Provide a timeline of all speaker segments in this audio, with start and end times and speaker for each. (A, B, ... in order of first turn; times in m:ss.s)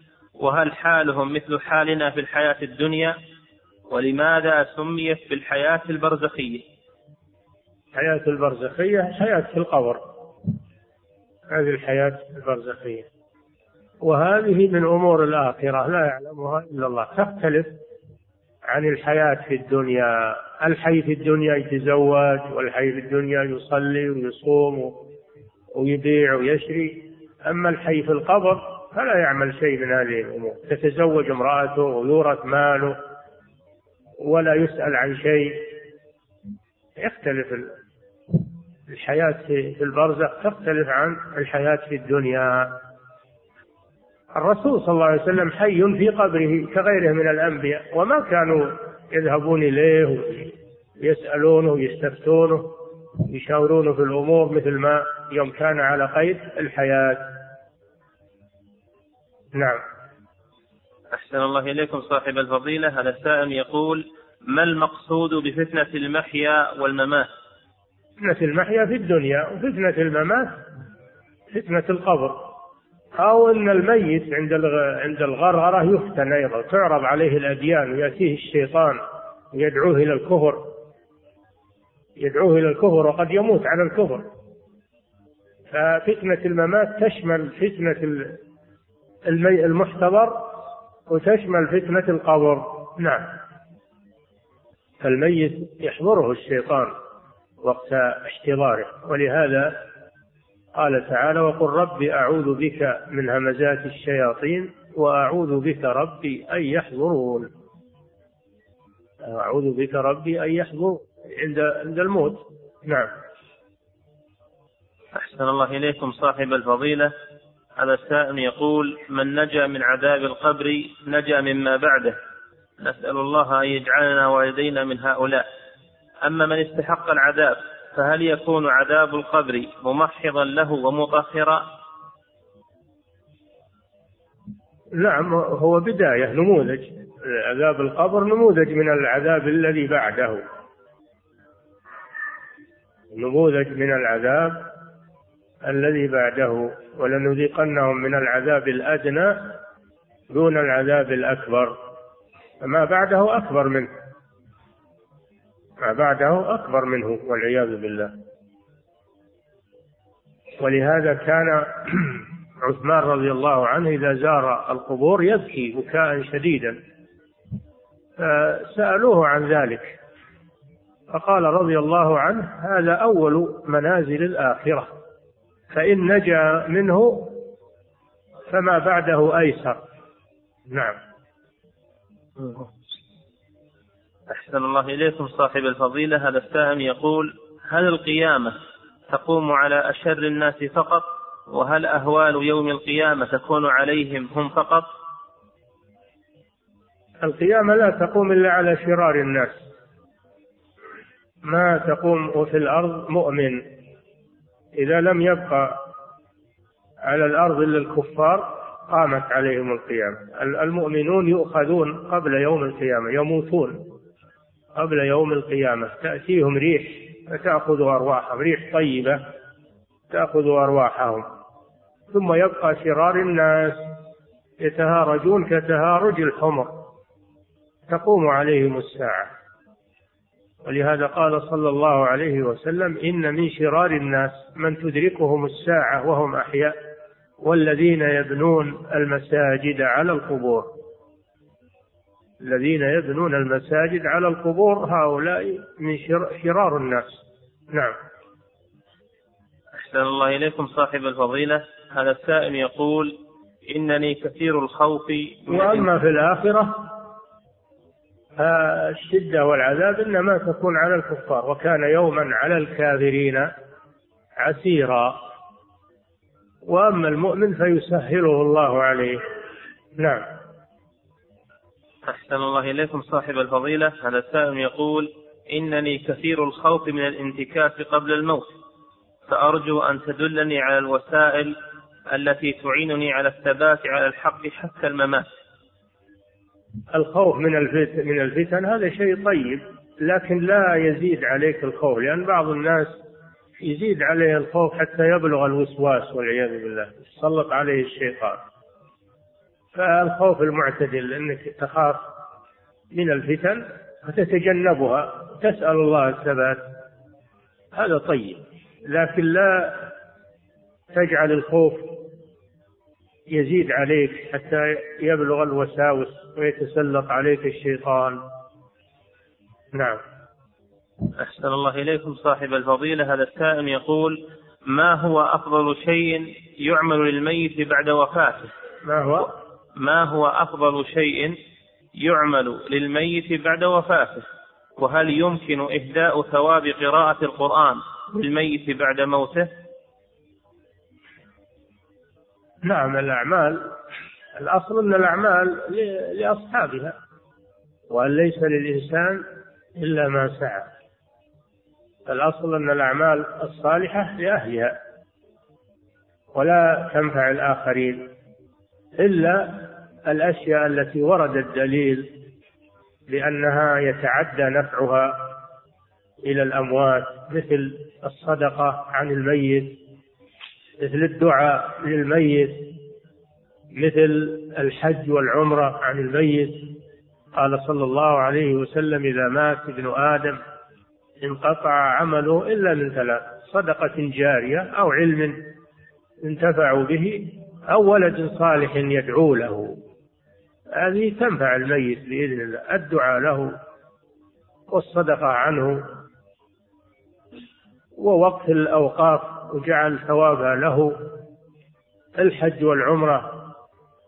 0:00.4-0:03.2 A
0:03.9-0:06.6 A
0:07.9-0:10.0 B
0:11.5-0:13.1 B
0:14.0-0:17.7 B
0:18.7-0:25.0 B
0:25.7-0:33.0 B
0:34.2-0:35.7 B
0:37.0-0:37.7 B
0:38.9-0:42.8 B
0:44.3-0:52.8 B
0:53.3-0:57.3 B
0:59.5-0:59.8 B
1:01.1-1:07.3 A
1:08.2-1:10.6 B
1:11.5-1:12.5 B
1:13.2-1:19.0 B
1:19.5-1:20.7 B
1:22.2-1:24.2 B
1:25.7-1:28.4 B
1:29.2-1:33.4 B
1:35.0-1:36.9 B
1:37.6-1:39.8 B
1:40.7-1:47.5 B
1:49.2-1:53.1 B
1:55.1-1:57.1 A
1:57.8-2:02.2 A
2:02.8-2:05.4 A
2:06.2-2:11.6 A
2:14.9-2:20.4 B
2:23.1-2:24.7 B
2:25.6-2:29.6 B
2:30.3-2:31.8 B
2:32.6-2:33.9 B
2:35.8-2:38.2 B
2:40.6-2:46.8 B
2:48.2-2:50.0 B
2:51.1-2:55.0 B
2:55.7-2:57.4 B
2:58.5-2:59.8 B
3:00.7-3:01.0 B
3:04.3-3:08.6 A
3:09.1-3:14.9 A
3:17.2-3:19.6 B
3:21.4-3:23.7 B
3:24.7-3:25.8 B
3:27.0-3:33.8 B
3:34.8-3:39.2 B
3:40.1-3:41.2 B
3:42.1-3:43.9 B
3:44.6-3:46.8 B
3:47.9-3:49.3 B
3:50.6-3:56.8 B
3:57.4-4:00.7 B
4:02.4-4:08.0 B
4:09.8-4:13.2 A
4:13.7-4:15.9 A
4:15.5-4:17.0 B
4:18.4-4:23.5 B
4:24.4-4:25.2 B
4:26.6-4:29.2 B
4:30.0-4:30.2 B
4:32.0-4:38.5 A
4:39.3-4:41.6 A
4:42.1-4:45.3 A
4:46.9-4:53.0 B
4:53.6-4:58.4 B
4:59.7-5:02.0 B
5:02.9-5:06.6 B
5:07.7-5:09.9 B
5:10.9-5:12.0 B
5:13.3-5:18.2 B
5:19.7-5:20.0 B
5:21.2-5:28.5 A
5:28.8-5:29.3 B
5:29.8-5:31.4 A
5:32.0-5:34.2 A
5:34.8-5:39.5 A
5:42.6-5:43.7 B
5:44.4-5:47.0 B
5:47.9-5:49.2 B
5:49.8-5:50.7 B
5:52.1-5:54.8 B
5:56.3-5:58.1 B
5:59.0-6:02.2 B
6:03.1-6:05.3 B
6:06.2-6:09.8 B
6:10.8-6:12.7 B
6:13.7-6:16.8 B
6:17.3-6:20.4 B
6:21.2-6:25.4 B
6:26.2-6:29.8 B
6:30.7-6:33.6 B
6:34.7-6:35.8 B
6:38.0-6:41.1 B
6:42.2-6:43.5 B